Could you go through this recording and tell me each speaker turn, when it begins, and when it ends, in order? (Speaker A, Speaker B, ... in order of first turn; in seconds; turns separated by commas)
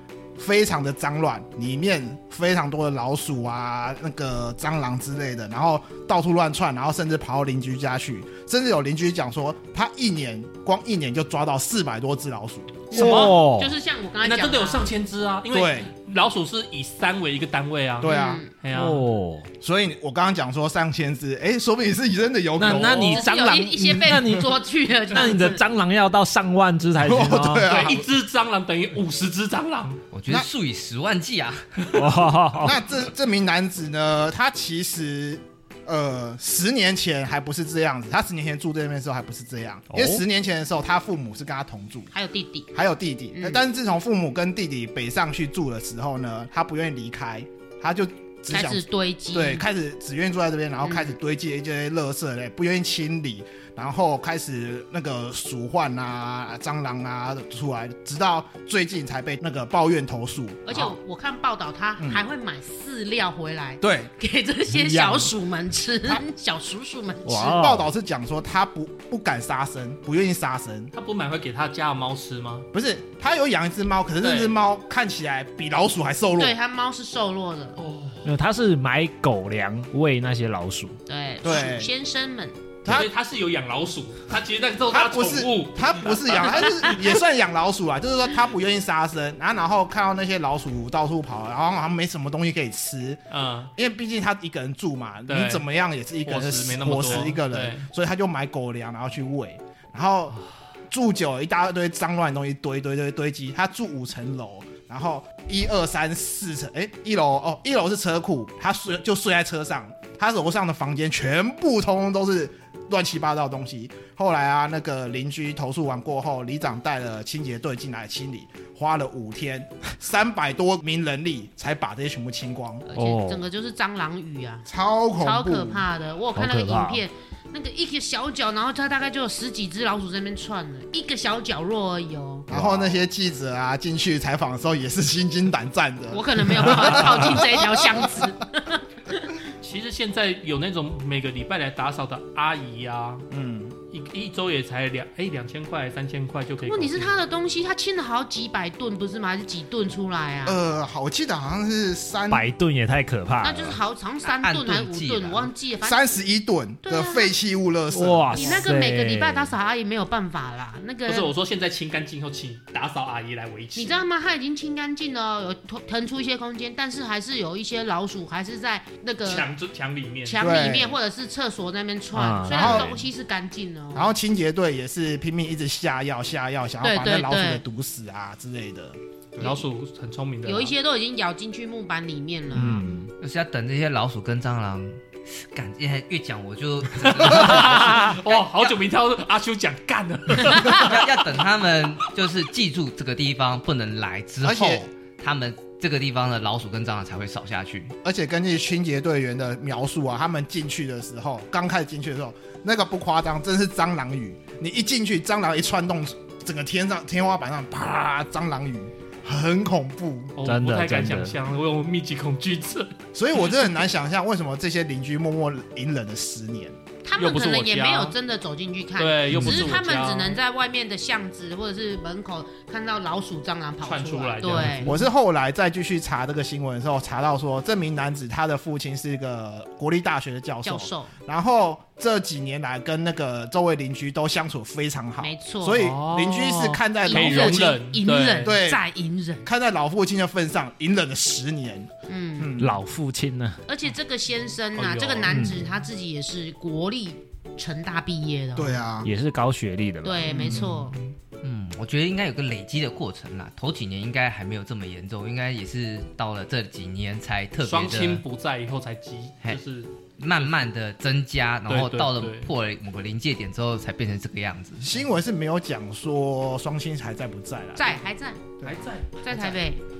Speaker A: 0.3-12.9, Speaker B: 12.9-14.9, Speaker C: 12.9-13.3, Speaker D: 12.9-13.7, Speaker C: 14.2-19.0, Speaker A: 15.5-15.9, Speaker A: 18.0-18.4, Speaker B: 18.0-18.5, Speaker D: 18.7-19.5, Speaker A: 19.6-23.2, Speaker C: 22.6-23.1, Speaker D: 22.6-24.6, Speaker B: 23.0-25.6, Speaker D: 25.1-27.7, Speaker A: 27.0-28.0, Speaker C: 27.6-30.0, Speaker E: 30.1-31.9, Speaker D: 31.9-32.8, Speaker A: 32.6-42.1, Speaker D: 39.9-40.2, Speaker B: 42.1-42.7, Speaker A: 42.7-60.9, Speaker B: 43.3-43.6, Speaker B: 48.5-49.6, Speaker B: 50.8-51.1, Speaker B: 60.6-67.5, Speaker A: 63.8-64.1, Speaker A: 64.7-65.3, Speaker D: 67.2-67.9, Speaker A: 67.3-70.9, Speaker C: 70.9-72.7, Speaker A: 72.7-76.6, Speaker C: 74.2-74.5, Speaker B: 76.4-77.8, Speaker C: 77.8-78.2, Speaker D: 78.2-81.0, Speaker B: 81.0-82.6, Speaker A: 81.4-81.9, Speaker A: 82.8-83.1, Speaker C: 82.8-86.9, Speaker A: 84.9-93.2, Speaker C: 93.3-93.7, Speaker A: 93.7-100.4, Speaker C: 95.3-95.6, Speaker C: 96.2-97.9, Speaker A: 100.9-122.8, Speaker B: 122.9-124.7, Speaker D: 122.9-123.4, Speaker A: 124.7-125.8, Speaker B: 125.2-132.5, Speaker D: 126.3-127.0, Speaker D: 132.5-133.0, Speaker A: 132.5-138.3, Speaker B: 136.1-139.4, Speaker C: 139.6-143.3, Speaker A: 143.3-143.8, Speaker C: 143.9-147.2, Speaker B: 146.6-150.6, Speaker A: 150.4-152.5, Speaker D: 152.3-153.8, Speaker B: 153.4-156.0, Speaker E: 154.3-155.5, Speaker A: 155.8-158.7, Speaker B: 156.8-157.3, Speaker D: 157.9-159.5, Speaker B: 158.3-161.3, Speaker C: 161.1-164.0, Speaker B: 163.8-169.5, Speaker C: 169.2-170.4, Speaker B: 170.2-174.1, Speaker A: 170.4-171.0, Speaker D: 172.1-173.0, Speaker A: 172.5-172.9, Speaker A: 173.9-179.0, Speaker B: 176.8-177.6, Speaker C: 179.4-180.7, Speaker B: 180.4-182.9, Speaker D: 182.5-183.1, Speaker E: 183.2-188.1, Speaker C: 187.0-191.2, Speaker E: 190.6-197.9, Speaker A: 194.4-194.9, Speaker A: 198.0-210.3, Speaker C: 210.3-212.9, Speaker D: 210.4-211.3, Speaker A: 213.1-216.8, Speaker B: 217.0-225.0, Speaker C: 217.2-218.2, Speaker C: 219.0-220.4, Speaker D: 219.3-219.8, Speaker C: 223.8-225.0, Speaker A: 224.8-237.8, Speaker B: 230.6-231.1, Speaker B: 235.2-235.9, Speaker C: 235.7-238.6, Speaker B: 237.0-239.5, Speaker A: 238.4-238.8, Speaker A: 239.4-242.7, Speaker B: 242.1-242.6, Speaker D: 242.6-243.6, Speaker B: 243.7-248.8, Speaker C: 244.8-245.4, Speaker D: 245.3-245.6, Speaker A: 248.6-249.1, Speaker D: 249.0-250.7, Speaker B: 250.0-250.9, Speaker A: 250.2-250.8, Speaker E: 251.4-258.2, Speaker C: 257.6-260.6, Speaker E: 260.2-264.8, Speaker C: 261.6-262.5, Speaker A: 264.8-268.0, Speaker B: 267.8-268.4, Speaker C: 268.6-269.6, Speaker B: 269.2-269.8